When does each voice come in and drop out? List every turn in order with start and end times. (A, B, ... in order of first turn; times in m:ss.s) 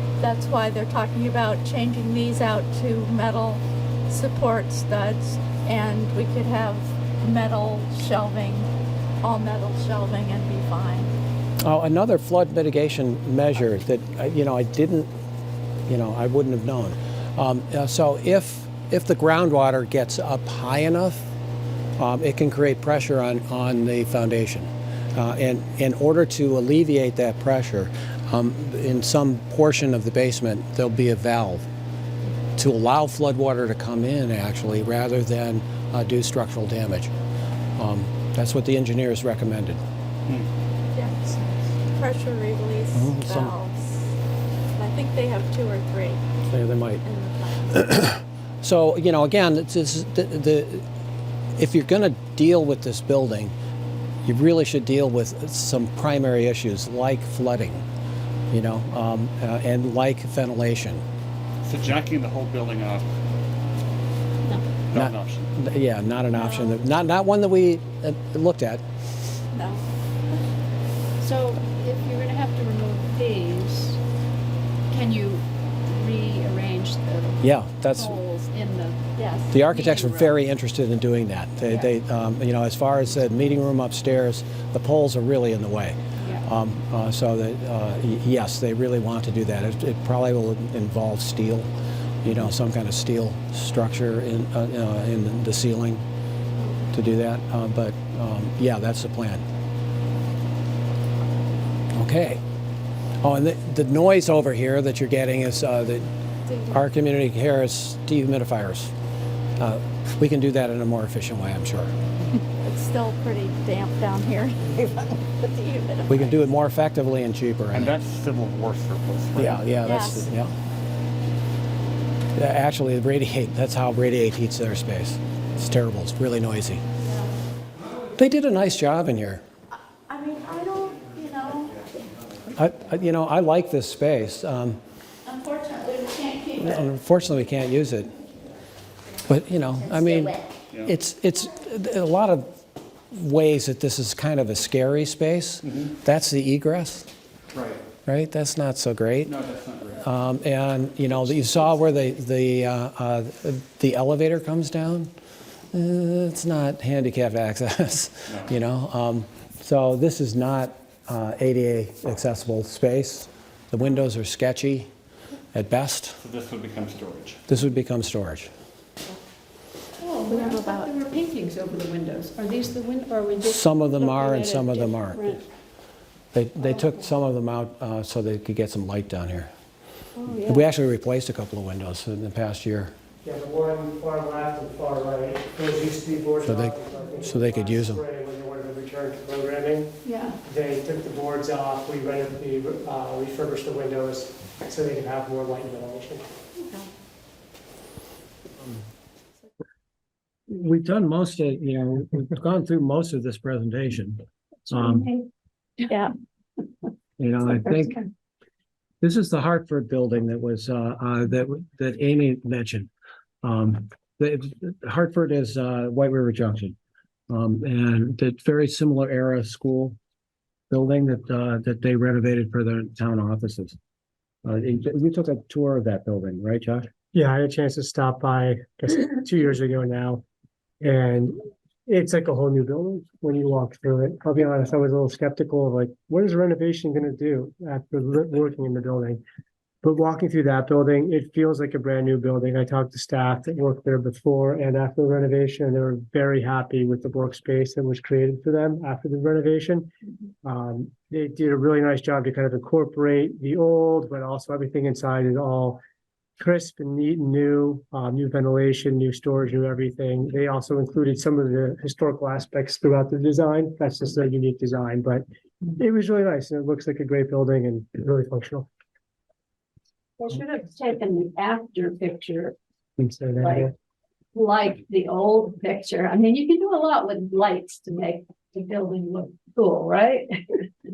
0:00.2-0:08.7 A
0:09.2-0:11.1 A
0:11.6-0:15.1 B
0:15.9-0:21.2 B
0:22.0-0:31.6 B
0:32.6-0:37.1 B
0:37.8-0:39.8 B
0:40.9-0:44.1 A
0:42.9-0:43.5 B
0:44.8-0:46.2 A
0:46.5-0:47.0 B
0:47.0-0:47.8 A
0:47.7-0:50.8 B
0:51.6-0:53.5 B
0:54.2-0:57.8 B
0:58.5-1:01.0 B
1:01.6-1:03.0 C
1:04.9-1:05.5 C
1:04.9-1:08.8 B
1:06.3-1:06.8 A
1:09.5-1:09.8 A
1:11.2-1:14.0 D
1:14.9-1:17.4 D
1:17.4-1:18.2 B
1:18.0-1:19.0 D
1:19.2-1:19.5 A
1:19.5-1:31.7 B
1:19.7-1:20.3 D
1:26.2-1:26.4 D
1:32.2-1:36.0 B
1:36.9-1:39.4 B
1:41.9-1:42.4 B
1:43.2-1:46.1 B
1:46.5-1:46.8 A
1:46.7-1:48.9 B
1:49.6-1:51.9 B
1:52.6-1:56.5 A
1:56.1-1:57.9 B
1:57.7-1:59.8 C
1:59.4-2:00.5 B
1:59.8-2:00.3 A
2:02.3-2:06.8 B
2:07.0-2:07.3 A
2:08.2-2:09.4 B
2:09.7-2:11.8 A
2:12.5-2:14.8 B
2:15.2-2:16.9 A
2:16.6-2:18.1 B
2:19.2-2:22.5 B
2:23.1-2:27.1 B
2:27.5-2:27.8 C
2:28.0-2:29.3 B
2:29.2-2:30.1 C
2:30.0-2:35.1 B
2:35.7-2:44.9 B
2:38.3-2:38.5 C
2:45.5-2:46.2 B
2:46.2-2:47.4 C
2:47.5-2:48.5 B
2:50.0-2:55.4 D
2:50.3-2:50.9 A
2:53.4-2:55.4 B
2:56.3-2:59.5 B
3:00.2-3:00.6 D
3:00.4-3:02.9 B
3:03.2-3:16.2 E
3:06.4-3:08.0 B
3:10.0-3:10.4 D
3:20.5-3:25.1 B
3:24.7-3:25.3 D
3:27.2-3:28.0 B
3:29.0-3:32.9 B
3:33.4-3:36.8 B
3:37.3-3:40.0 B
3:40.7-3:43.8 B
3:44.4-3:46.9 B
3:47.1-3:50.2 E
3:50.8-3:59.2 E
3:59.8-4:09.9 E
4:10.4-4:15.8 E
4:16.4-4:28.7 E
4:30.2-4:32.6 D
4:33.0-4:33.7 E
4:33.4-4:33.7 D
4:34.3-4:40.4 D